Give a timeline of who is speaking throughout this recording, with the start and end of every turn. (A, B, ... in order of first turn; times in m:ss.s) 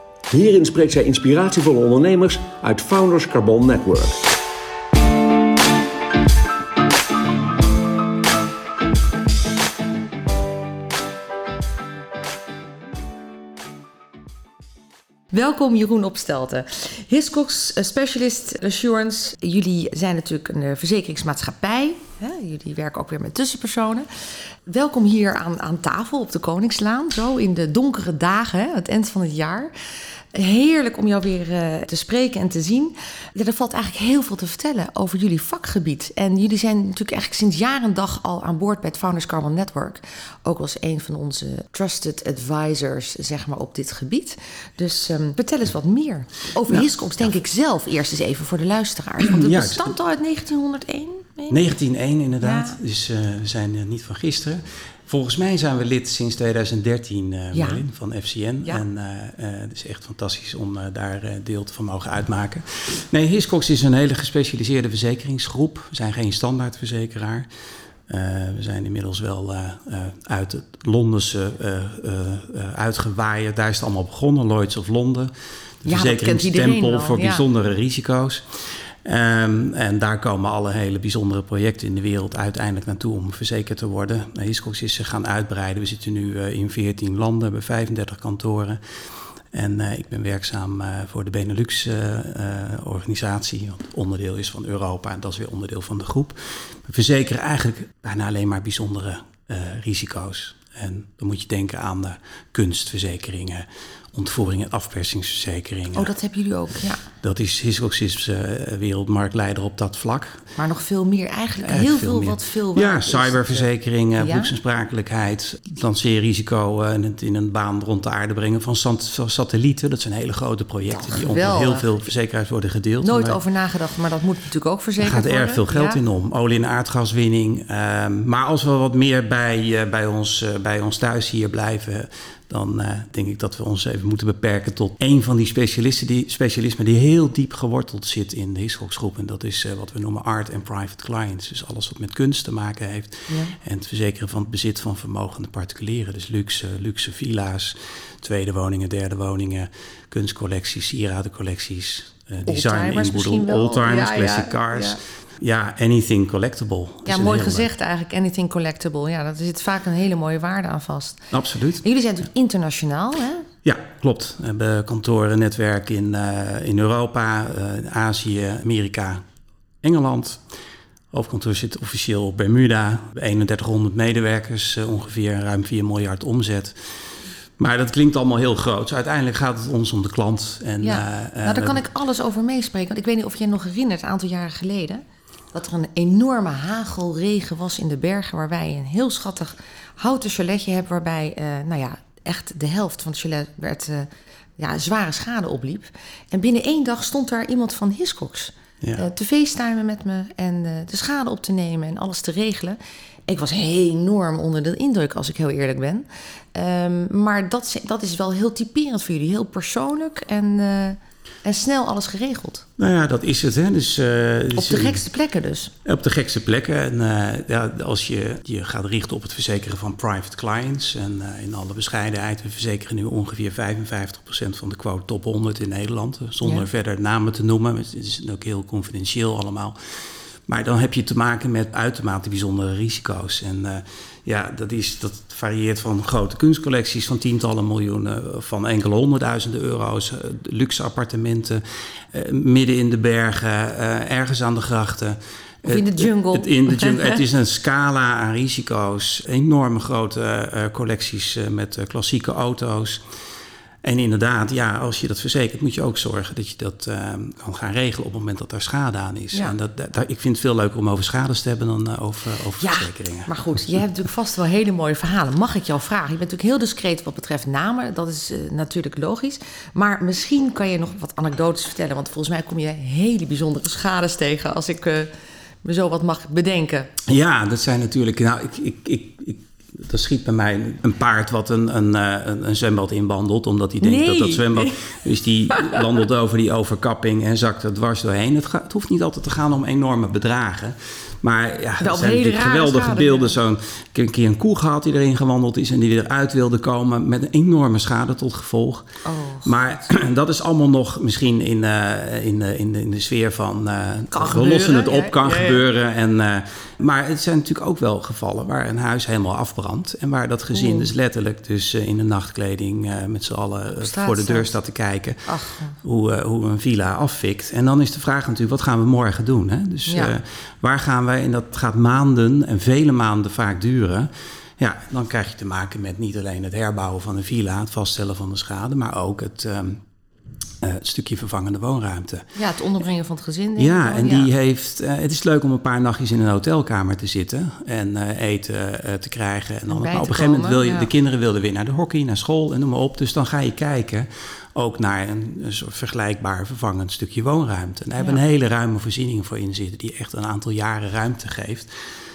0:00.3-0:04.2 A
0:15.3-0:24.1 B
0:24.7-0:29.7 B
0:30.3-0:51.7 B
0:49.2-0:49.9 C
0:51.5-1:07.5 C
0:52.4-0:52.8 B
0:57.5-0:57.8 B
1:08.1-1:15.3 C
1:15.8-1:28.8 C
1:15.8-1:17.4 B
1:29.5-1:46.1 C
1:45.9-1:47.0 B
1:47.2-1:50.4 C
1:50.6-1:54.5 B
1:51.6-2:03.4 C
2:00.9-2:01.9 B
2:03.0-2:06.0 B
2:05.0-2:37.7 C
2:23.3-2:23.5 B
2:32.4-2:35.0 B
2:37.0-2:41.2 B
2:41.3-2:41.8 C
2:41.8-2:43.5 B
2:43.6-2:49.2 C
2:49.8-2:50.4 C
2:51.1-2:56.7 C
2:57.6-3:01.8 C
3:00.8-3:05.0 B
3:05.5-3:32.6 B
3:32.8-3:35.0 C
3:34.5-3:35.7 B
3:35.8-3:49.8 C
3:46.4-3:46.7 B
3:50.5-4:13.0 C
4:05.6-4:07.2 B
4:13.8-4:23.8 C
4:22.6-4:35.1 B
4:35.6-4:36.9 B
4:37.0-4:58.8 C
4:43.8-4:44.9 B
4:45.5-4:45.8 B
4:51.8-4:53.4 B
4:59.0-4:59.6 B
4:59.4-5:29.8 C
5:04.1-5:05.6 B
5:10.5-5:10.9 B
5:13.8-5:14.5 B
5:15.3-5:15.8 B
5:19.9-5:20.2 B
5:30.6-5:32.3 C
5:32.4-5:34.3 B
5:33.6-5:51.7 C
5:39.7-5:40.9 B